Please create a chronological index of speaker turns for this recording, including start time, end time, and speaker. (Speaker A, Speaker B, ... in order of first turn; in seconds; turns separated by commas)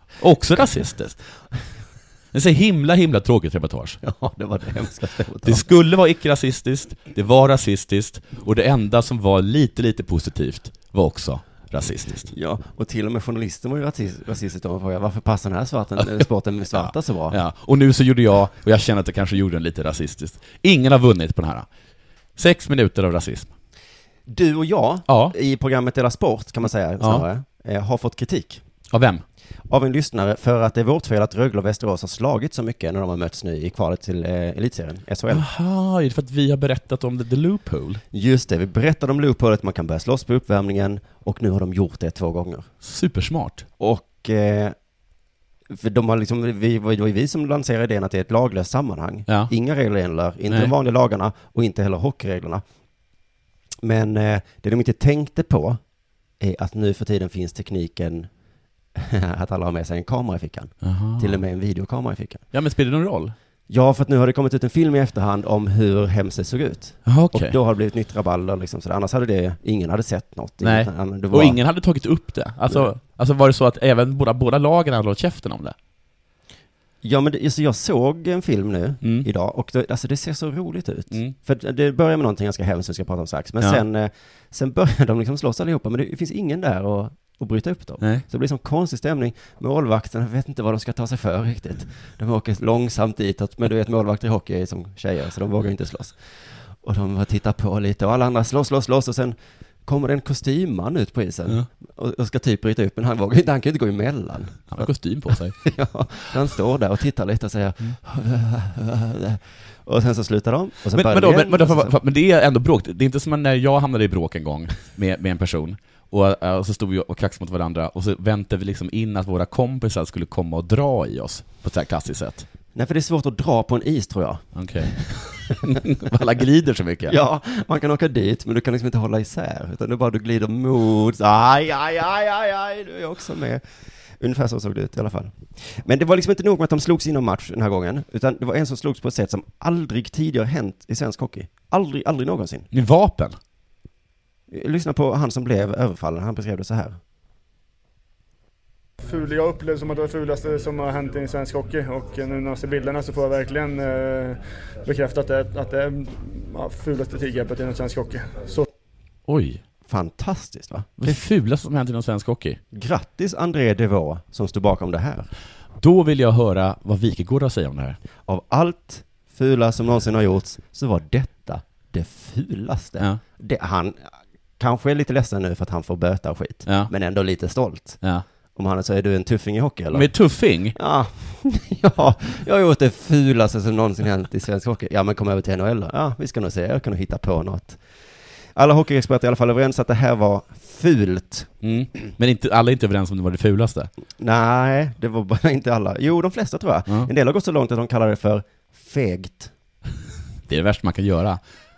Speaker A: 0.2-1.2, Speaker A: 2.3-4.0, Speaker B: 4.0-5.6, Speaker A: 5.4-12.3, Speaker B: 12.3-17.4, Speaker A: 16.0-21.7, Speaker A: 22.4-23.5, Speaker B: 24.3-28.6, Speaker A: 25.1-25.3, Speaker A: 27.0-27.2, Speaker A: 28.9-29.2, Speaker B: 29.7-35.5, Speaker A: 35.3-38.0, Speaker B: 38.1-42.7, Speaker A: 42.8-43.7, Speaker B: 43.8-44.7, Speaker B: 45.7-52.6, Speaker B: 53.8-55.8, Speaker B: 56.4-58.3, Speaker B: 58.9-62.4, Speaker A: 60.8-61.4, Speaker A: 62.5-63.3, Speaker B: 63.7-71.6, Speaker A: 67.0-67.6, Speaker A: 70.6-75.8, Speaker B: 77.0-104.8, Speaker A: 79.0-79.3, Speaker A: 104.7-105.6, Speaker B: 105.6-112.0, Speaker A: 110.9-122.5, Speaker B: 122.7-124.9, Speaker A: 124.5-127.2, Speaker B: 125.5-125.8, Speaker B: 127.1-133.6, Speaker B: 134.2-142.7, Speaker A: 142.7-143.3, Speaker B: 144.5-147.0, Speaker C: 149.0-158.7, Speaker A: 159.3-159.6, Speaker B: 159.9-161.2, Speaker A: 161.0-162.6, Speaker B: 162.7-165.3, Speaker A: 165.8-168.0, Speaker B: 168.3-178.0, Speaker B: 178.5-180.1, Speaker A: 179.9-180.8, Speaker B: 180.7-187.8, Speaker B: 188.5-191.5, Speaker A: 191.6-193.9, Speaker B: 194.2-199.5, Speaker A: 200.5-201.4